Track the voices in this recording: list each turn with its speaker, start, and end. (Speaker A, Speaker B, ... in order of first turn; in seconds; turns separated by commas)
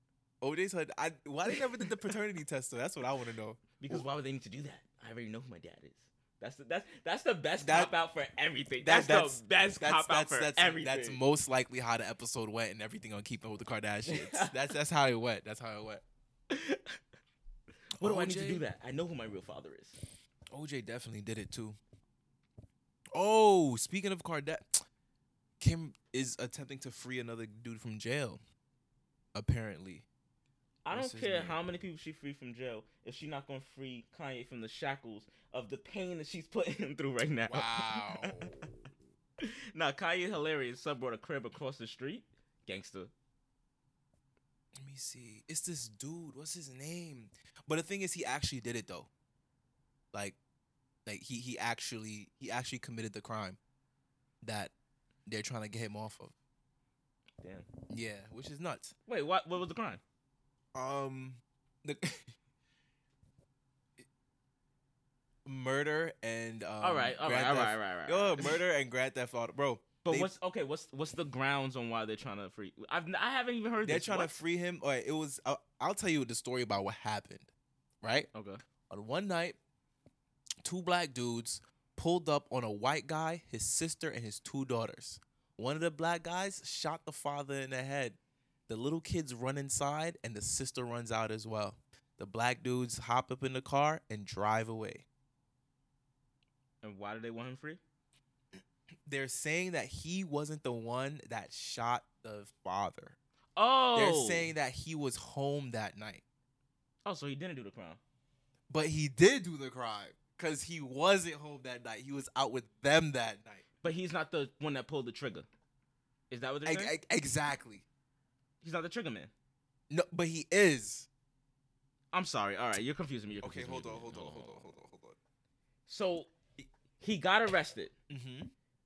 Speaker A: 0.4-4.0, Speaker B: 3.8-11.2, Speaker A: 7.6-7.9, Speaker A: 8.8-16.0, Speaker B: 14.1-14.5, Speaker B: 16.5-17.0, Speaker A: 18.0-18.6, Speaker B: 18.0-20.0, Speaker A: 20.5-21.8, Speaker A: 23.1-24.8, Speaker A: 25.6-28.4, Speaker A: 29.3-30.1, Speaker B: 30.8-38.7, Speaker A: 30.9-31.6, Speaker A: 37.5-38.7, Speaker B: 39.4-43.1, Speaker A: 44.8-49.1, Speaker A: 51.0-53.6, Speaker A: 54.4-54.7, Speaker A: 55.2-56.3, Speaker B: 57.4-57.7, Speaker A: 57.9-58.9, Speaker B: 59.1-60.0, Speaker A: 60.7-62.3, Speaker A: 65.4-70.3, Speaker B: 66.8-68.6, Speaker B: 70.0-74.3, Speaker A: 73.8-77.5, Speaker A: 78.0-78.3, Speaker B: 78.3-78.6, Speaker A: 78.9-79.6, Speaker A: 80.6-95.0, Speaker B: 96.8-97.8, Speaker A: 99.0-103.2, Speaker B: 103.5-104.5, Speaker A: 103.9-106.2, Speaker B: 107.0-108.0, Speaker A: 108.7-113.6, Speaker B: 113.8-115.5, Speaker B: 116.3-116.9, Speaker A: 116.6-117.8, Speaker B: 118.6-119.3, Speaker A: 119.9-121.1, Speaker B: 122.1-124.7, Speaker A: 123.4-125.2, Speaker B: 125.9-126.3, Speaker B: 127.0-127.9, Speaker A: 128.1-128.5